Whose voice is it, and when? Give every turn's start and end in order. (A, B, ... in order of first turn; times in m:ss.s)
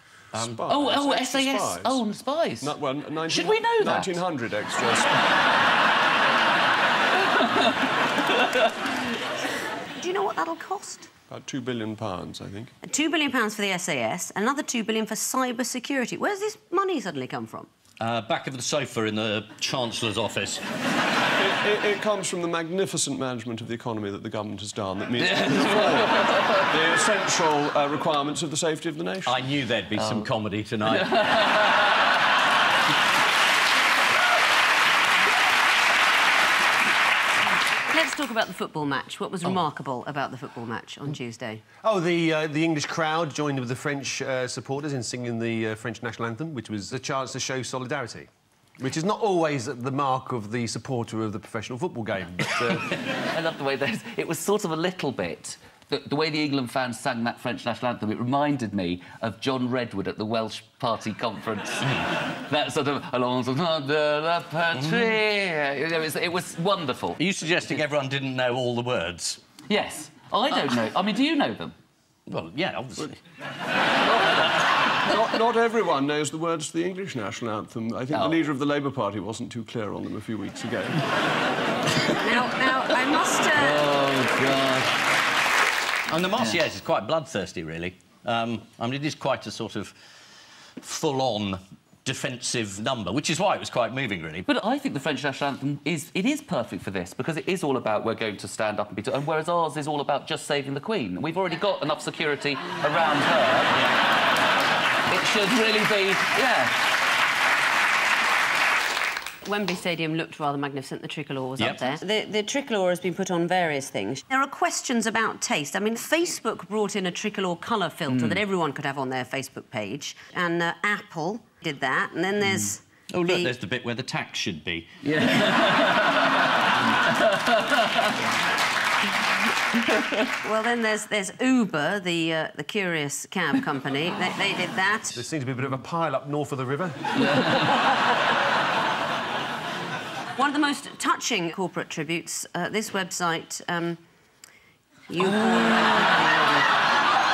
0:00.3-0:02.0 A
0:00.4-0:00.8 B
0:00.7-0:02.8 C
0:02.6-0:05.2 A
0:03.3-0:04.1 C
0:07.3-0:07.6 C
0:10.0-0:11.1 D
0:11.3-0:12.7 A
0:12.8-0:17.7 D
0:18.0-0:20.6 B
0:21.4-0:29.5 A
0:25.3-0:26.5 C
0:29.3-0:31.2 B
0:30.0-0:30.3 C
0:37.9-0:41.6 D
0:41.8-0:52.9 E
0:53.2-1:07.2 C
1:04.8-1:05.1 B
1:07.2-1:09.4 B
1:09.7-1:11.8 C
1:12.3-1:13.2 B
1:14.0-1:14.5 A
1:15.0-1:21.0 A
1:18.1-1:18.4 C
1:22.2-1:23.8 D
1:23.6-1:24.9 C
1:26.1-1:29.9 B
1:30.8-1:34.5 B
1:34.5-1:43.8 C
1:45.1-1:46.8 C
1:49.4-2:03.5 D
2:03.1-2:04.9 B
2:05.0-2:06.1 C
2:10.4-2:15.2 D
2:15.1-2:17.2 E
2:20.4-2:24.0 D
2:25.1-2:26.7 D